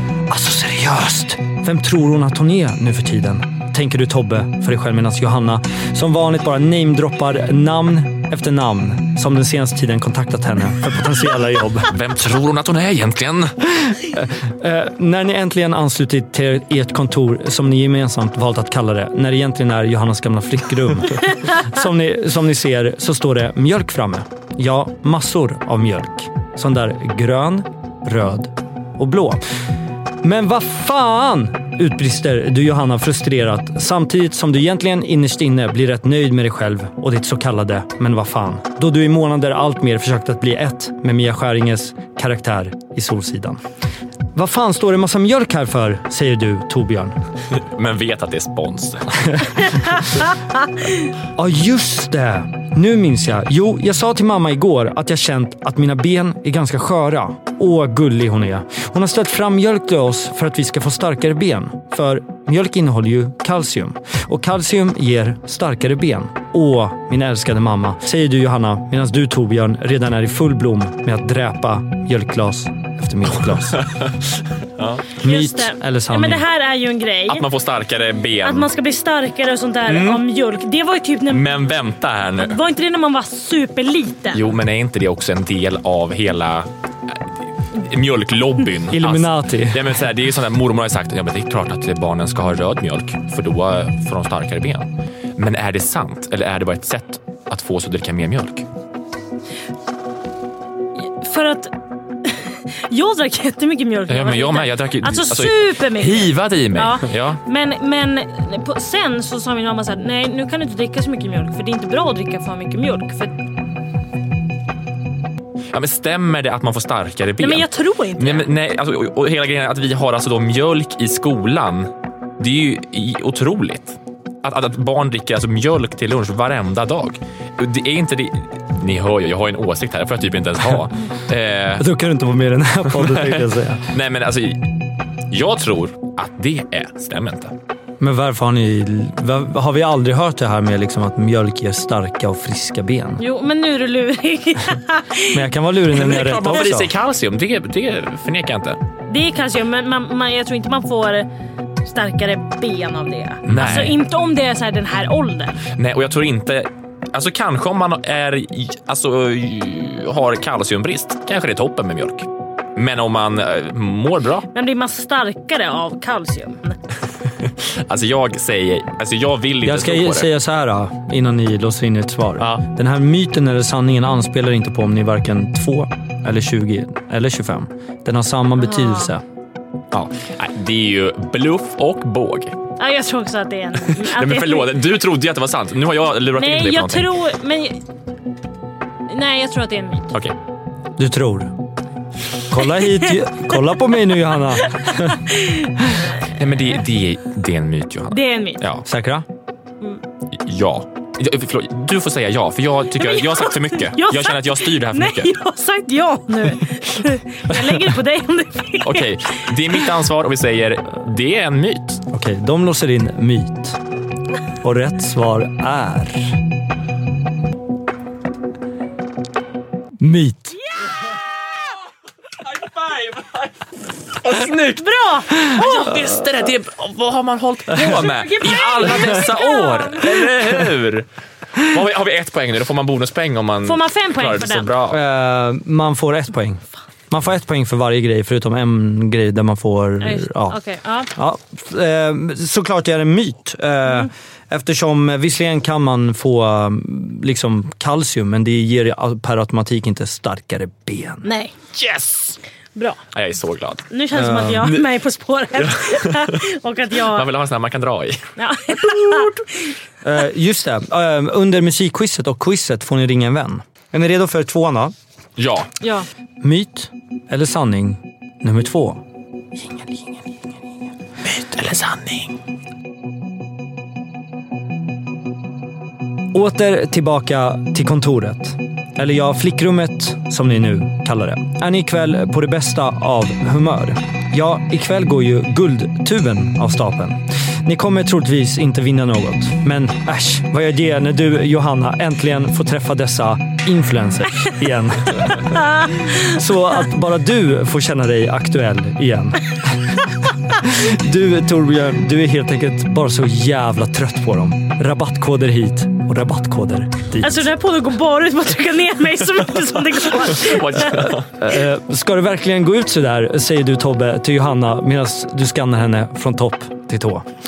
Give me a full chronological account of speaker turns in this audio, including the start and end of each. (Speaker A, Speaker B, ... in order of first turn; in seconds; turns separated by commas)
Speaker A: 0.3-11.9, Speaker B: 11.9-13.6, Speaker A: 13.8-29.4, Speaker A: 30.2-43.6, Speaker A: 44.3-47.2, Speaker B: 47.5-49.5, Speaker A: 51.4-73.9, Speaker B: 73.8-75.0, Speaker A: 75.2-76.5, Speaker C: 75.2-77.5, Speaker B: 77.3-78.7, Speaker C: 78.4-81.5, Speaker B: 79.8-80.2, Speaker B: 81.3-82.6, Speaker C: 82.4-84.4, Speaker B: 84.3-98.7, Speaker A: 88.9-89.9, Speaker C: 101.0-101.7, Speaker C: 102.2-113.3, Speaker B: 104.1-107.4, Speaker B: 115.7-131.9, Speaker C: 117.4-118.5, Speaker A: 131.8-133.9, Speaker B: 132.9-134.7, Speaker B: 135.3-137.5, Speaker A: 138.0-143.2, Speaker C: 143.2-145.4, Speaker A: 145.3-146.9, Speaker B: 145.9-148.8, Speaker C: 149.1-151.3, Speaker C: 151.8-155.7, Speaker B: 153.4-154.0, Speaker B: 155.7-164.5, Speaker C: 164.5-166.8, Speaker B: 167.4-170.3, Speaker A: 169.6-179.2, Speaker C: 178.6-179.1, Speaker B: 179.9-182.6, Speaker C: 182.8-184.8, Speaker B: 183.9-187.2, Speaker C: 186.4-187.8, Speaker C: 189.1-190.1, Speaker A: 191.0-191.5, Speaker A: 192.5-195.2, Speaker C: 194.8-196.1, Speaker B: 196.2-198.8, Speaker C: 198.1-198.6, Speaker A: 198.8-199.2, Speaker B: 200.3-205.3, Speaker C: 203.0-209.7, Speaker B: 208.8-212.0, Speaker A: 212.1-213.8, Speaker A: 214.6-216.4, Speaker A: 220.0-220.6, Speaker B: 222.4-223.5, Speaker B: 224.2-224.9, Speaker C: 224.7-226.2, Speaker B: 225.4-235.0, Speaker C: 227.8-230.2, Speaker C: 233.6-234.7, Speaker A: 234.9-240.6, Speaker C: 240.0-241.1, Speaker A: 241.1-251.3, Speaker C: 251.2-251.7, Speaker B: 251.7-252.4, Speaker C: 252.8-253.0, Speaker B: 253.1-253.9, Speaker C: 253.9-257.3, Speaker A: 254.1-254.8, Speaker B: 254.6-254.9, Speaker B: 255.5-256.4, Speaker B: 257.0-259.4, Speaker C: 258.4-259.4, Speaker A: 260.0-264.9, Speaker B: 265.4-265.7, Speaker C: 265.8-266.1, Speaker A: 266.4-269.0, Speaker B: 271.2-272.4, Speaker A: 276.3-299.9, Speaker A: 300.5-307.5, Speaker C: 307.2-311.1, Speaker B: 310.2-311.3, Speaker A: 311.4-317.2